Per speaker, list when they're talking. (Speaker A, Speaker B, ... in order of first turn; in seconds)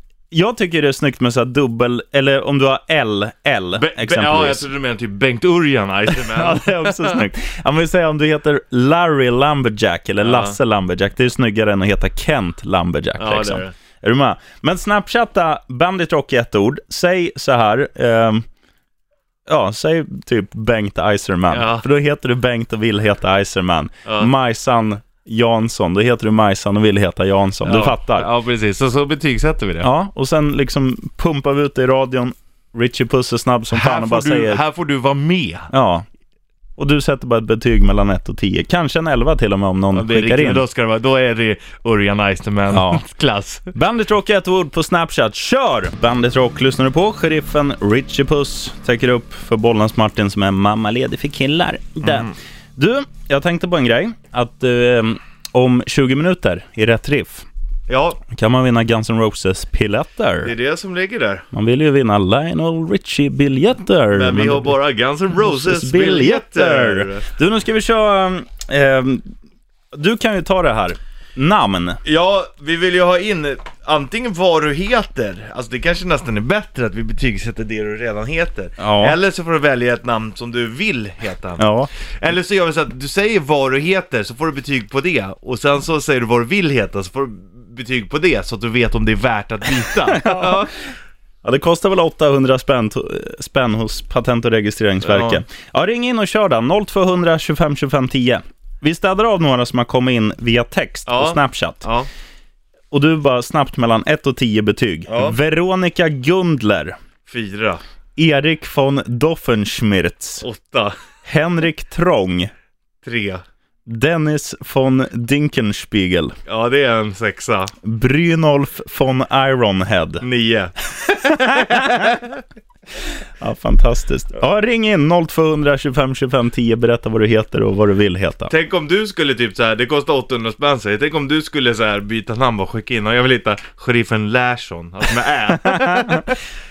Speaker A: 0.3-4.6, 6.3-18.4, 19.5-28.3, 29.8-34.6, 35.7-36.0, 36.8-40.6, 42.7-43.0, 43.7-57.4, 58.3-60.5, 61.5-64.7, 65.4-69.3, 69.9-72.0, 78.8-79.1, 81.6-81.9, 90.2-90.6, 91.4-101.9, 102.9-107.0, 108.2-110.4, 111.2-112.5, 113.9-116.3, 117.8-120.2, 123.4-128.5, 135.6-136.3
Speaker B: 3.8-7.2, 10.2-10.6, 13.2-13.7, 21.5-21.8, 24.1-24.3, 27.6-29.9, 33.7-35.7, 39.9-43.7, 52.0-52.3, 57.9-58.2, 60.4-61.5, 64.1-67.2, 72.0-81.6, 82.2-90.7, 95.0-95.4, 101.1-102.1, 105.1-105.3, 107.3-107.8, 110.4-110.9, 113.0-113.4, 116.5-117.7, 120.2-122.2, 128.5-136.3